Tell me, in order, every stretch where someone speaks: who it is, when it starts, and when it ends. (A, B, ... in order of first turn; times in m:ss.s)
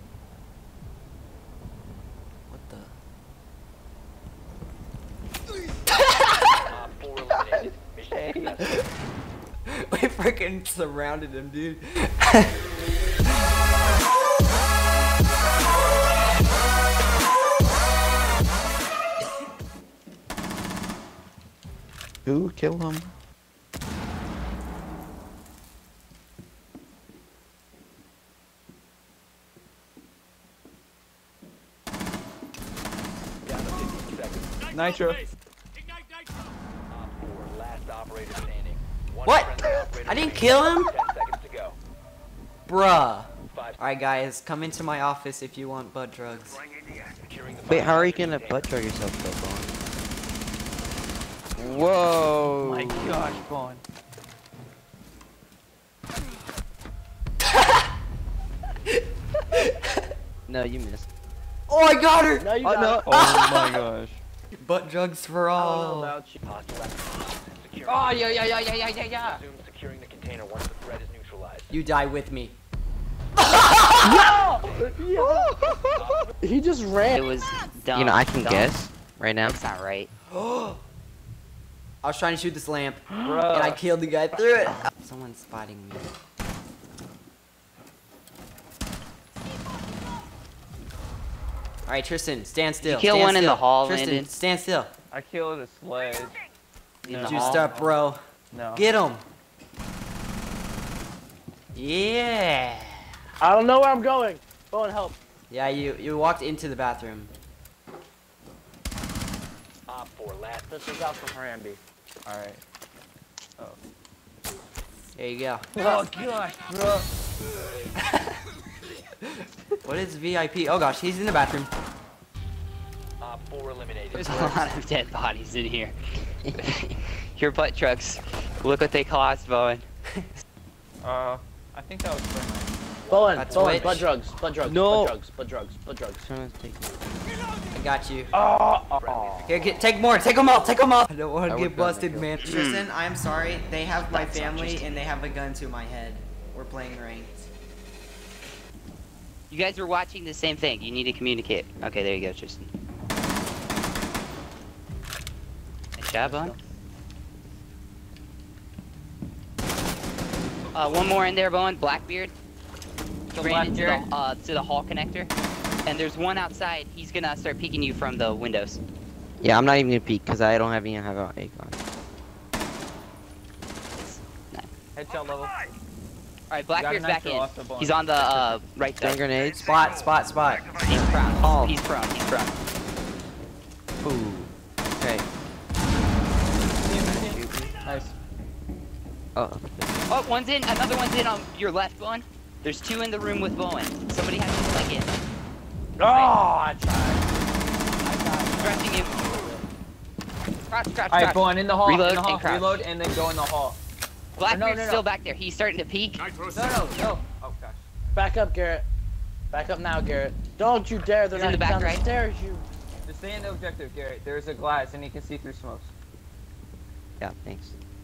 0:02.5-0:03.0 A
0:06.1-0:06.6 A
0:06.7-0:08.7 B
0:07.3-0:08.9 A
0:09.7-0:12.7 A
0:22.3-0:23.0 C
0:33.4-0:34.6 B
0:34.7-0:35.3 D
0:36.9-0:41.8 B
0:39.2-0:40.9 A
0:42.7-0:46.6 A
0:43.5-0:43.8 B
0:47.1-0:48.8 B
0:47.7-0:49.7 C
0:51.6-0:53.2 C
0:52.6-0:53.8 D
0:58.9-1:00.0 A
1:00.5-1:01.1 C
1:01.7-1:03.8 A
1:02.4-1:03.0 E
1:02.6-1:04.2 D
1:02.7-1:03.0 C
1:04.5-1:06.2 A
1:05.6-1:06.4 D
1:06.4-1:11.7 B
1:07.9-1:08.4 D
1:11.7-1:12.6 A
1:14.0-1:15.7 E
1:14.6-1:15.0 B
1:15.9-1:16.3 B
1:16.4-1:17.2 E
1:17.1-1:18.7 F
1:17.9-1:19.6 C
1:19.4-1:20.1 F
1:22.0-1:26.1 A
1:23.1-1:23.8 D
1:31.9-1:34.9 A
1:32.8-1:34.3 F
1:35.1-1:36.4 D
1:37.0-1:38.0 D
1:37.0-1:37.7 F
1:37.2-1:38.2 A
1:38.5-1:38.8 D
1:38.7-1:39.2 A
1:41.7-1:43.0 A
1:43.4-1:45.2 E
1:45.5-1:47.3 A
1:49.9-1:50.8 B
1:50.7-1:51.8 E
1:52.3-1:52.6 D
1:55.2-1:55.7 A
1:55.8-1:57.1 D
1:59.8-2:01.7 A
2:03.2-2:04.7 B
2:04.1-2:05.9 F
2:06.6-2:09.8 F
2:11.0-2:12.7 D
2:13.0-2:14.1 B
2:13.1-2:16.2 E
2:13.4-2:14.0 A
2:14.6-2:15.2 C
2:16.2-2:17.0 C
2:17.7-2:18.3 A
2:18.3-2:19.5 D
2:19.0-2:20.0 B
2:19.5-2:27.5 A
2:21.5-2:22.3 C
2:22.4-2:22.9 F
2:24.0-2:24.9 F
2:29.5-2:32.7 F
2:36.0-2:36.6 F
2:36.2-2:36.5 D
2:40.7-2:42.3 F
2:43.3-2:44.1 D
2:43.4-2:45.3 F
2:45.9-2:48.8 F
2:49.4-2:51.8 C
2:54.0-2:54.7 F
2:55.0-2:55.5 D
2:56.5-2:59.2 F
2:56.7-2:58.6 D
2:59.0-2:59.7 C
2:59.6-3:00.8 A
3:00.8-3:02.6 F
3:01.2-3:01.8 C
3:04.0-3:05.2 C
3:06.8-3:08.2 D
3:06.9-3:07.7 C
3:09.4-3:09.9 C
3:10.1-3:15.1 F
3:16.0-3:17.3 E
3:16.0-3:16.4 F
3:18.0-3:19.6 E
3:18.6-3:19.2 F
3:20.7-3:22.8 F
3:21.1-3:23.8 D
3:24.4-3:26.2 F
3:24.5-3:25.0 D
3:26.5-3:28.3 D
3:28.2-3:28.8 E
3:29.5-3:32.7 E
3:31.3-3:32.0 F
3:33.1-3:35.9 D
3:37.2-3:37.8 C